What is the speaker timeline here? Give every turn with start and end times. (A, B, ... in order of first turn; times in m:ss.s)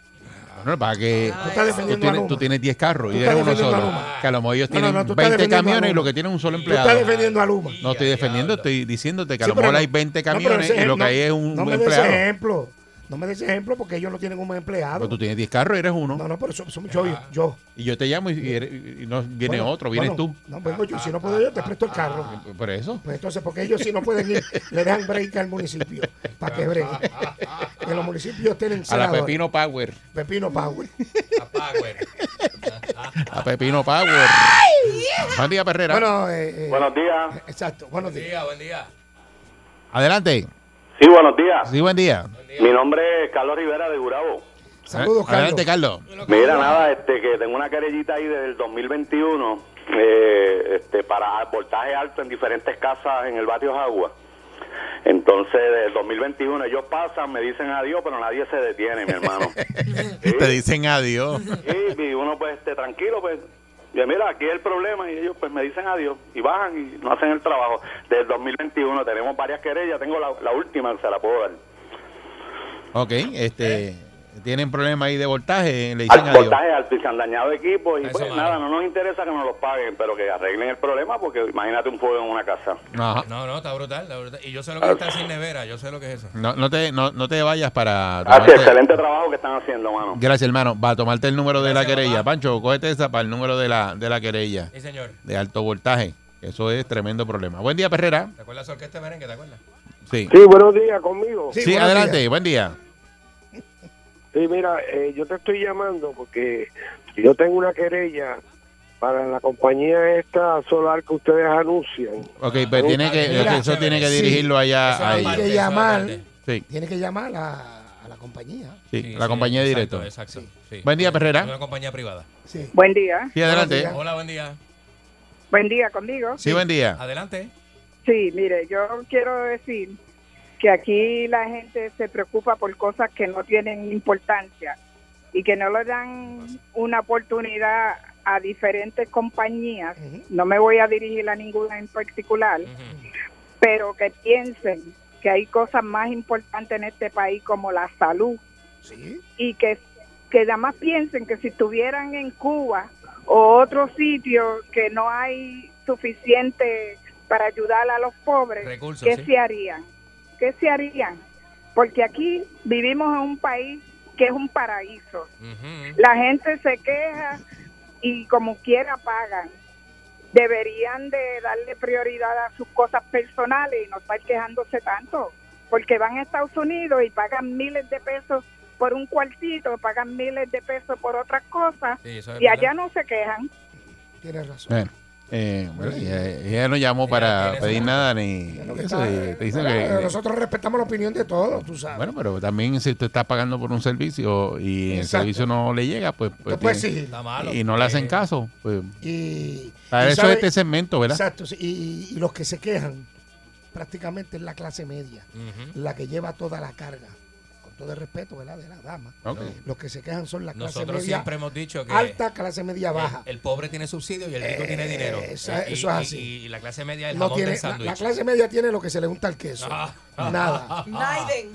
0:00.2-0:02.0 A
0:00.6-0:07.1 B
0:01.3-0:02.5 C
0:03.1-0:04.1 C
0:03.3-0:04.3 A
0:04.7-0:06.1 C
0:06.4-0:08.7 A
0:06.7-0:07.8 C
0:07.8-0:12.2 B
0:09.4-0:15.2 C
0:15.0-0:16.2 B
0:16.1-0:17.6 C
0:16.9-0:17.3 A
0:17.8-0:20.4 B
0:19.4-0:22.4 C
0:20.6-0:22.4 A
0:22.3-0:23.0 B
0:23.0-0:27.1 C
0:26.4-0:28.1 A
0:27.8-0:29.4 C
0:28.9-0:30.0 B
0:30.1-0:30.9 C
0:31.4-0:32.1 A
0:32.2-0:32.5 B
0:32.7-0:33.8 A
0:33.2-0:36.0 B
0:34.8-0:35.1 C
0:35.9-0:38.3 C
0:36.7-0:37.4 D
0:38.0-0:38.9 A
0:39.9-0:40.5 B
0:41.0-0:41.7 D
0:41.7-0:42.3 B
0:42.4-0:42.8 A
0:42.6-0:44.4 D
0:44.9-0:45.7 C
0:44.9-0:46.0 B
0:46.1-0:46.9 A
0:46.3-0:54.1 D
0:55.0-1:00.6 D
0:59.6-1:01.6 B
1:01.6-1:11.6 D
1:12.9-1:16.6 B
1:16.1-1:22.8 D
1:18.0-1:18.6 A
1:22.9-1:23.3 B
1:23.2-1:26.3 A
1:26.4-1:28.8 B
1:28.3-1:30.2 D
1:30.1-1:34.7 B
1:31.6-1:32.3 A
1:34.7-1:35.2 A
1:35.2-1:38.3 B
1:38.4-1:39.6 A
1:40.1-1:40.3 B
1:40.3-1:41.6 E
1:41.5-1:42.2 C
1:41.6-1:42.8 B
1:44.3-1:48.4 E
1:49.0-1:53.0 E
1:52.4-1:55.5 B
1:52.4-1:56.3 A
1:53.2-1:58.8 C
1:58.9-2:00.1 B
1:59.0-2:02.3 A
2:00.8-2:01.5 B
2:02.5-2:02.8 C
2:02.7-2:03.3 F
2:03.4-2:03.9 B
2:03.4-2:04.0 C
2:03.5-2:04.6 A
2:05.5-2:06.4 F
2:06.4-2:06.6 C
2:06.4-2:07.0 B
2:07.0-2:07.5 A
2:08.0-2:10.0 F
2:10.6-2:14.8 F
2:15.3-2:22.7 F
2:20.0-2:20.3 C
2:22.6-2:23.0 A
2:23.6-2:28.4 F
2:28.8-2:29.2 C
2:29.4-2:39.8 F
2:38.6-2:39.3 A
2:40.4-2:41.2 F
2:41.8-2:45.3 F
2:45.4-2:46.0 A
2:46.0-2:47.4 F
2:48.0-2:49.5 F
2:50.3-3:03.5 F
3:02.0-3:02.7 A
3:04.2-3:04.8 C
3:04.7-3:10.1 B
3:05.8-3:06.3 C
3:07.1-3:08.1 A
3:08.5-3:12.2 C
3:11.9-3:18.9 B
3:14.9-3:15.5 C
3:16.5-3:17.2 C
3:17.1-3:18.2 A
3:19.0-3:20.5 C
3:19.9-3:21.2 B
3:21.1-3:23.1 C
3:23.7-3:31.3 C
3:25.4-3:25.8 A
3:29.3-3:29.5 B
3:30.5-3:32.2 A
3:31.9-3:33.3 C
3:32.9-3:38.1 A
3:34.4-3:36.3 C
3:37.1-3:40.9 C
3:39.6-3:41.4 A